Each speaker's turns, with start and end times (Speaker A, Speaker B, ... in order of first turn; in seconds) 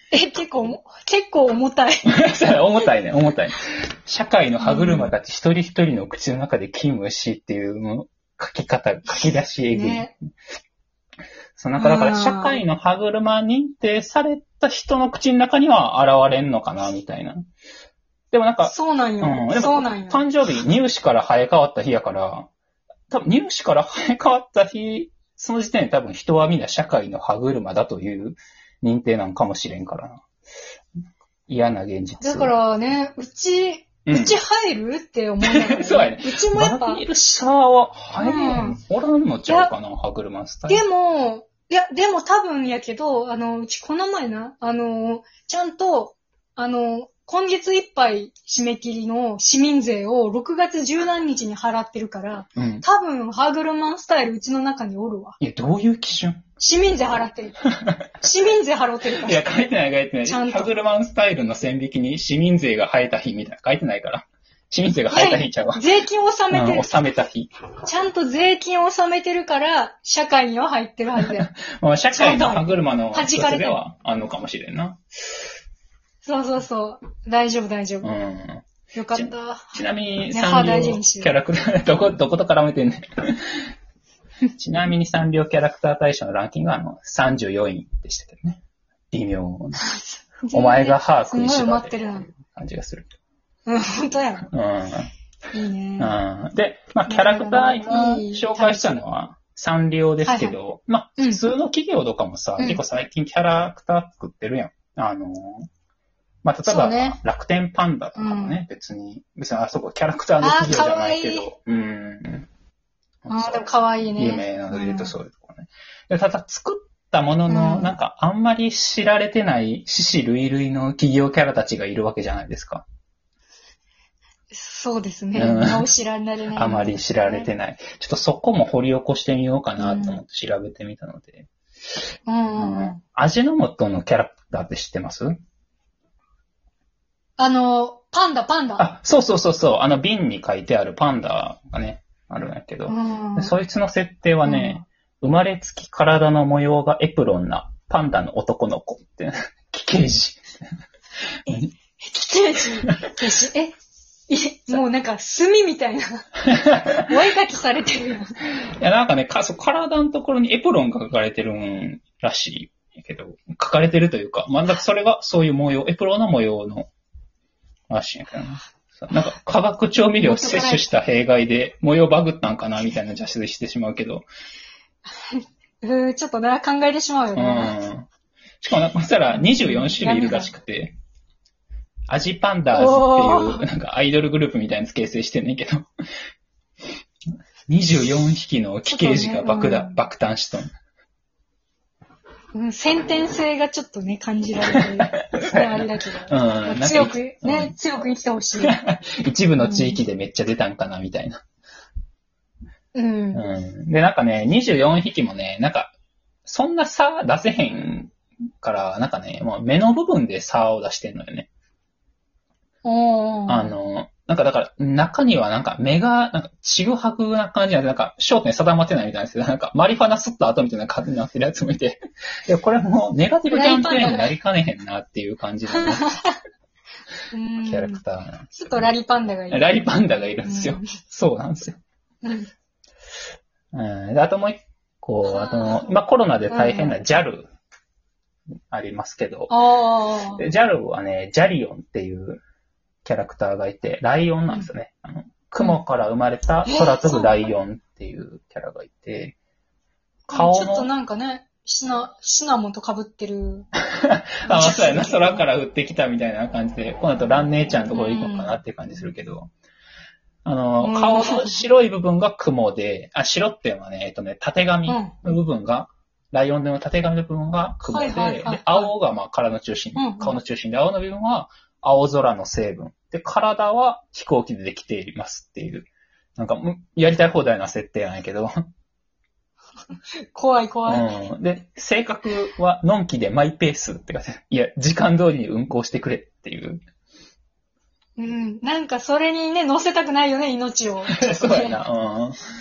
Speaker A: 0.1-2.1, 4.6-5.1, 9.7-10.1, 11.8-12.6, 18.7-20.2, 32.2-37.0, 38.2-38.8, 39.5-39.7, 40.7-55.4, 56.6-57.6, 58.2-59.4, 60.3-60.7, 65.1-66.9, 67.8-71.5, 72.1-73.8, 76.2-78.1, 78.9-79.8, 80.3-81.3, 89.8-92.3, 93.7-94.5, 95.5-96.1, 97.1-99.0, 100.2-100.5, 106.7-107.2, 108.2-108.6, 110.4-111.5, 113.3-115.1, 117.5-117.9, 124.5-127.5, 129.8-130.2, 132.3-133.0, 137.4-138.9, 142.9-143.5, 144.4-144.8, 151.5-153.8, 154.3-156.3, 157.0-158.4, 170.2-170.9, 175.1-177.8, 179.3-180.5, 182.8-183.7, 188.9-190.0, 192.5-198.8, 199.6-200.0, 202.9-203.4, 212.8-213.7, 223.5-224.3, 225.7-226.4, 227.3-228.0, 228.5-230.9, 232.2-232.5, 235.2-235.9, 236.5-237.0, 239.5-240.4, 246.7-247.4, 250.3-253.7, 254.5-255.4, 257.9-258.5, 260.8-261.6, 264.9-265.2, 267.9-268.9, 269.9-270.4, 280.3-281.1, 288.2-291.8
Speaker B: 2.1-10.1, 11.6-17.4, 18.3-22.5, 23.1-30.2, 31.5-32.5, 34.0-34.4, 35.4-40.8, 52.6-52.9, 55.4-56.4, 57.8-58.1, 59.2-65.8, 66.5-67.5, 71.2-75.0, 78.0-83.6, 84.5-89.8, 90.5-93.2, 94.5-95.1, 96.0-105.7, 106.4-112.5, 113.2-122.8, 125.4-125.9, 126.6-131.5, 132.5-135.4, 138.8-150.4, 156.5-157.0, 158.8-166.9, 167.9-174.3, 177.4-178.1, 178.6-181.0, 182.1-185.9, 187.7-190.7, 194.7-197.8, 198.6-201.4, 203.3-205.9, 206.4-211.5, 213.5-226.2, 227.6-228.9, 229.5-231.8, 233.7-237.5, 238.7-239.6, 240.4-242.4, 243.1-249.4, 250.3-250.9, 254.0-259.5, 260.4-278.5, 280.9-286.8, 291.1-292.4